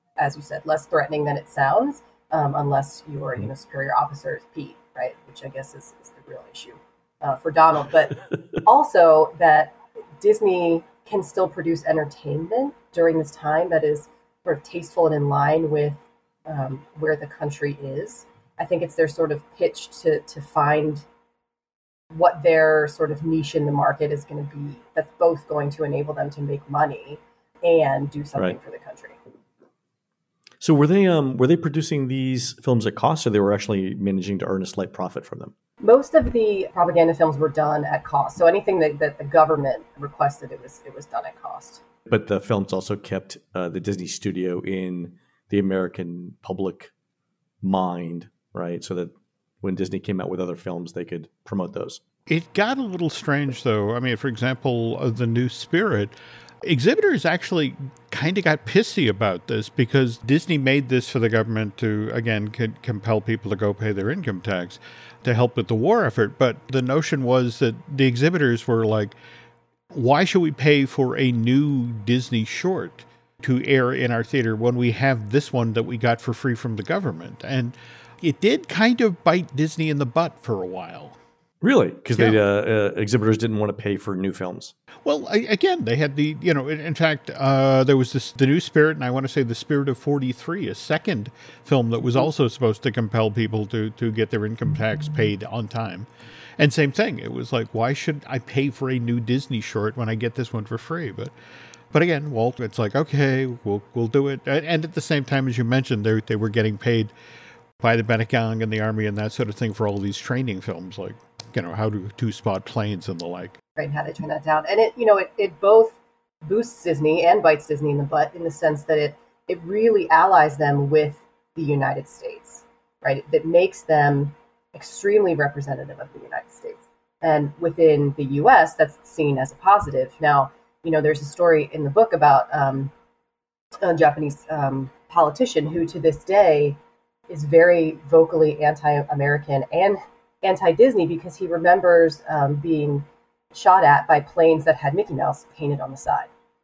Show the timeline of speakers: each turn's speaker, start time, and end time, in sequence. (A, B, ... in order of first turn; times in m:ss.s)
0:00.2-0:21.0 A
0:22.1-0:29.2 A
0:30.6-0:35.5 B
0:35.8-0:41.8 A
0:42.1-0:46.9 B
0:47.6-0:52.0 B
0:52.3-1:09.2 C
1:09.9-1:21.2 C
1:21.6-1:24.8 B
1:25.0-1:36.1 C
1:36.6-1:41.3 C
1:41.9-1:47.1 C
1:47.8-1:53.6 C
1:53.8-2:12.9 A
2:13.8-2:16.8 A
2:17.3-2:26.3 A